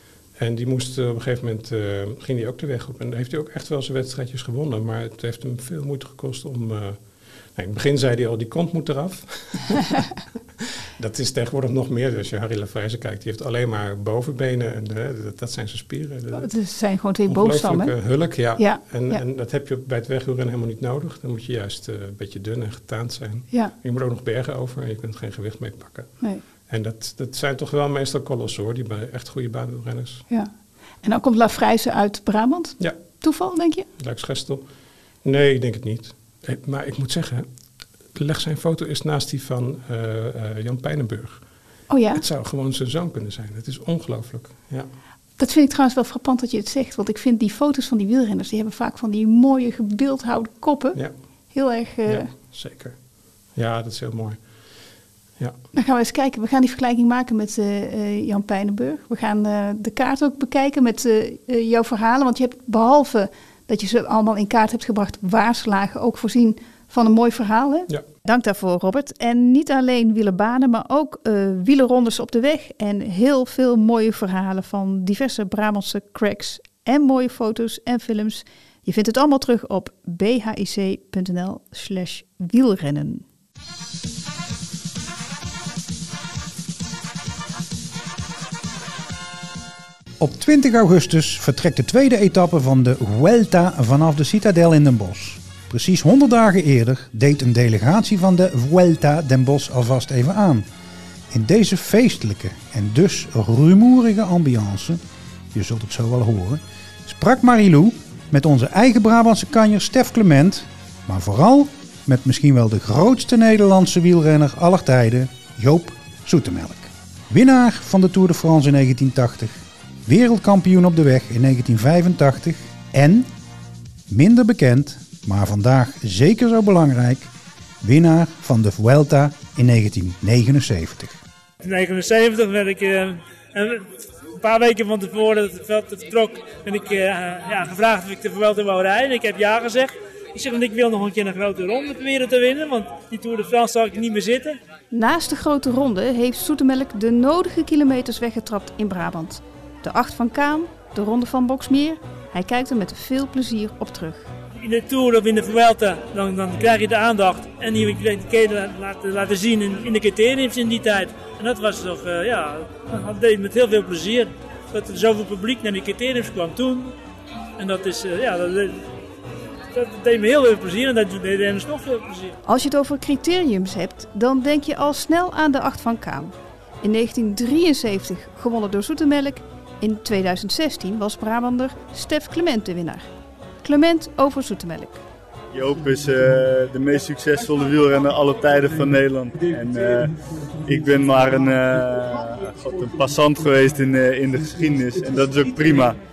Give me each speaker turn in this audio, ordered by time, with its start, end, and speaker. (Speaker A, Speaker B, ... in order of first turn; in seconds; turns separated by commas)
Speaker A: 0.4-30.3, Speaker B: 16.3-19.2, Speaker B: 30.3-33.9, Speaker A: 32.8-33.2, Speaker A: 34.0-34.7, Speaker A: 35.2-37.5, Speaker A: 38.1-44.9, Speaker B: 41.9-42.2, Speaker B: 45.4-52.3, Speaker A: 50.9-51.5, Speaker A: 52.0-55.6, Speaker B: 55.7-83.2, Speaker C: 90.2-100.7, Speaker C: 101.3-105.0, Speaker C: 105.5-123.3, Speaker C: 124.1-131.2, Speaker D: 131.6-144.6, Speaker B: 144.9-154.3, Speaker D: 154.6-166.9, Speaker D: 167.6-168.9, Speaker D: 169.7-172.4, Speaker B: 172.5-183.1, Speaker B: 183.6-185.0, Speaker E: 185.5-196.0